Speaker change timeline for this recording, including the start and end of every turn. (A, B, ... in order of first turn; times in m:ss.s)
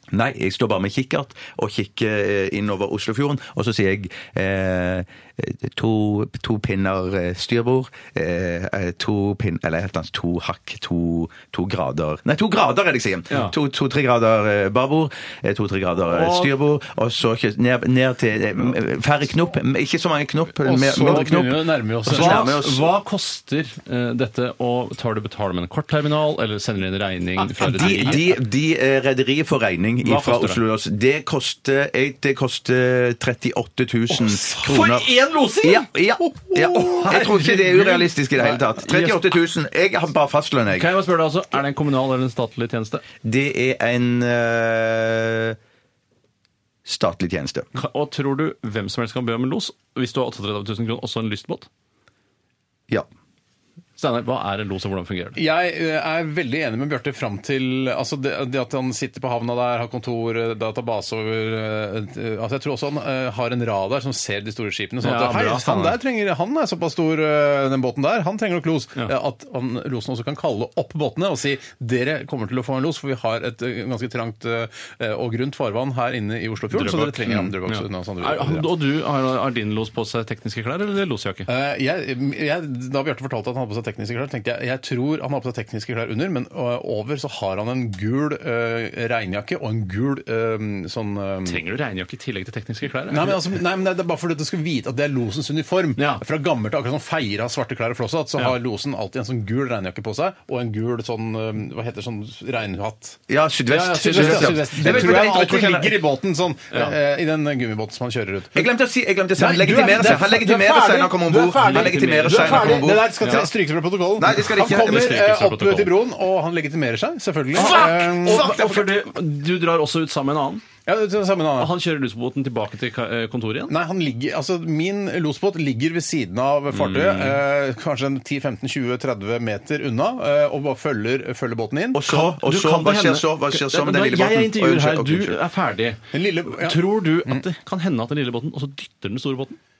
0:00.1-0:22.9 A
0:16.0-0:16.5 B
0:20.6-0:22.5 C
0:22.1-0:28.2 B
0:27.6-0:35.1 A
0:30.0-0:30.6 B
0:34.1-0:35.9 B
0:35.6-0:40.9 A
0:36.6-0:39.4 B
0:40.7-0:43.0 B
0:43.2-0:45.6 A
0:46.8-0:47.7 A
0:47.7-0:51.7 B
0:54.0-0:55.4 B
0:55.4-1:18.7 C
1:05.0-1:06.0 B
1:16.7-1:21.5 B
1:21.5-1:31.6 C
1:31.4-1:33.6 B
1:33.1-1:48.7 C
1:36.0-1:36.2 B
1:43.3-1:46.0 A
1:43.9-1:45.5 B
1:48.5-1:53.1 A
1:49.4-1:58.5 C
1:51.6-1:53.5 B
1:54.2-1:55.2 A
1:54.3-1:55.9 B
1:57.6-2:00.6 B
1:57.6-1:58.9 A
2:00.8-2:01.7 C
2:01.6-2:03.7 B
2:03.7-2:12.0 C
2:06.7-2:07.4 B
2:11.9-2:15.4 A
2:12.1-2:19.6 B
2:16.1-2:17.4 C